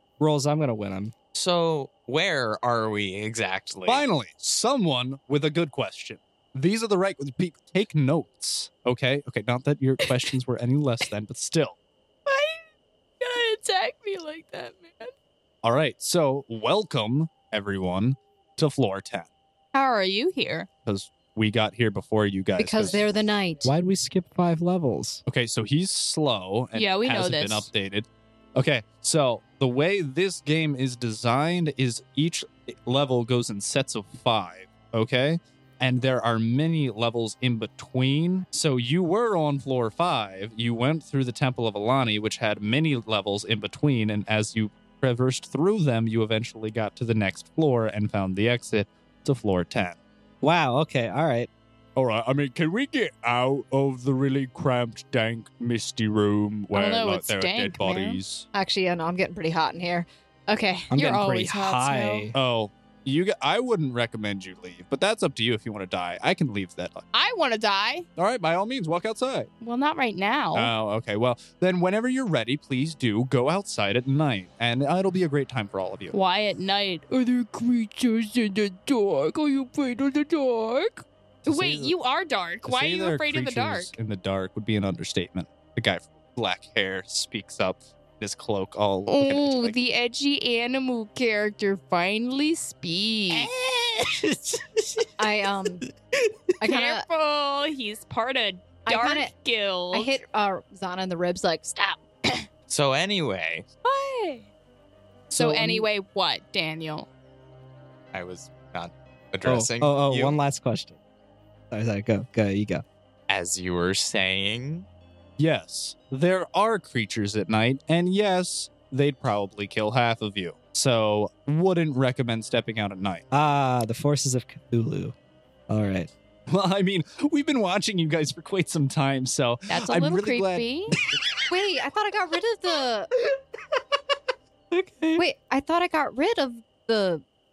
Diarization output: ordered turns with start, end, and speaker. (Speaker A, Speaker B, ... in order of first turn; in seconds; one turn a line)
Speaker A: 0.2-1.1
Speaker B: 1.3-4.0
Speaker C: 3.9-11.8
Speaker D: 12.3-12.6
Speaker D: 13.2-15.1
Speaker C: 15.6-19.3
Speaker D: 19.7-20.7
Speaker C: 20.9-23.0
Speaker E: 22.6-23.7
Speaker A: 23.6-25.2
Speaker C: 25.3-50.0
Speaker D: 26.7-27.7
Speaker A: 50.4-51.5
Speaker C: 52.0-58.5
Speaker D: 56.7-58.2
Speaker E: 58.5-60.9
Speaker A: 60.9-62.4
Speaker D: 60.9-62.3
Speaker C: 62.3-67.0
Speaker D: 67.1-68.1
Speaker C: 68.2-69.5
Speaker D: 69.6-70.7
Speaker C: 70.5-76.1
Speaker D: 76.1-83.9
Speaker C: 81.5-81.9
Speaker C: 82.7-89.8
Speaker D: 89.1-93.5
Speaker A: 93.3-95.5
Speaker E: 95.2-95.8
Speaker A: 96.2-96.5
Speaker E: 96.6-97.0
Speaker D: 96.6-100.2
Speaker E: 98.9-99.3
Speaker E: 99.9-102.0
Speaker B: 102.7-103.7
Speaker D: 103.8-104.5
Speaker D: 105.3-107.1
Speaker A: 105.3-105.9
Speaker B: 108.1-110.3
Speaker A: 109.5-111.0
Speaker A: 111.7-112.8
Speaker B: 113.3-114.9
Speaker C: 115.4-123.2
Speaker A: 123.3-125.1
Speaker A: 125.7-126.1
Speaker C: 126.5-131.2
Speaker D: 129.7-131.0
Speaker E: 131.5-133.1
Speaker A: 134.7-135.2
Speaker E: 135.2-137.2